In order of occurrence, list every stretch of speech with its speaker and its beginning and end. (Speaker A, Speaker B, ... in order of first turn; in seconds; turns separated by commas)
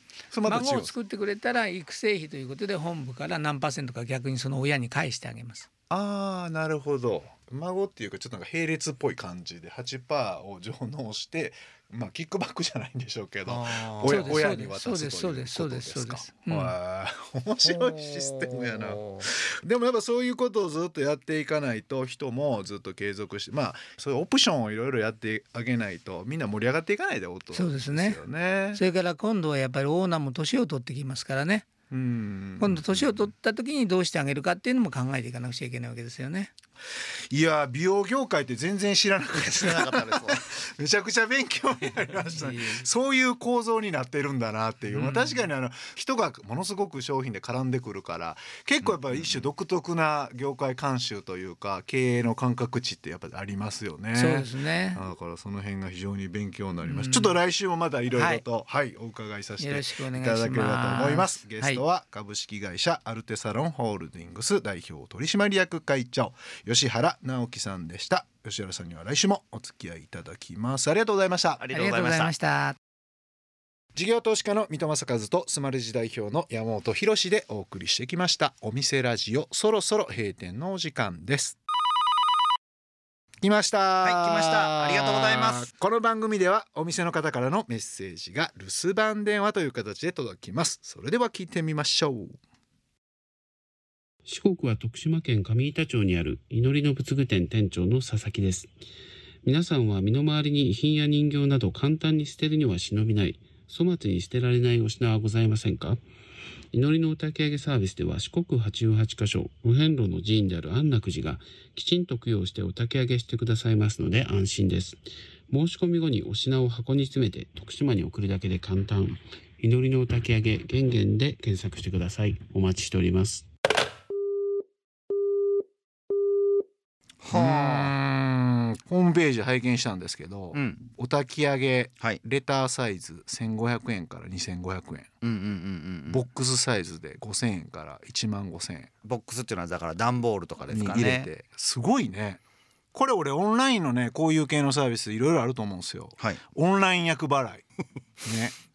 Speaker A: 0.3-0.9, Speaker B: 0.4-5.7, Speaker A: 5.9-28.8, Speaker C: 13.4-14.5, Speaker B: 14.0-16.8, Speaker C: 17.6-19.3, Speaker B: 27.5-28.2, Speaker B: 28.7-31.7, Speaker A: 31.9-33.3, Speaker B: 32.6-36.5, Speaker A: 36.9-71.6, Speaker C: 39.4-40.5, Speaker B: 42.2-42.9, Speaker B: 44.9-45.5, Speaker C: 48.8-49.4, Speaker B: 54.1-55.0, Speaker B: 56.9-57.4, Speaker B: 58.1-58.4, Speaker B: 59.6-61.8, Speaker C: 71.6-72.3, Speaker B: 71.7-72.8, Speaker A: 73.9-81.6, Speaker A: 83.4-92.4, Speaker C: 84.0-85.7, Speaker D: 94.2-98.7, Speaker D: 99.4-106.0, Speaker D: 106.7-123.5, Speaker C: 127.2-127.9, Speaker A: 127.3-135.1, Speaker C: 130.5-130.8, Speaker C: 135.2-136.2, Speaker A: 136.1-138.9, Speaker C: 139.0-141.3, Speaker A: 140.7-142.4, Speaker A: 142.9-147.6, Speaker A: 148.2-148.5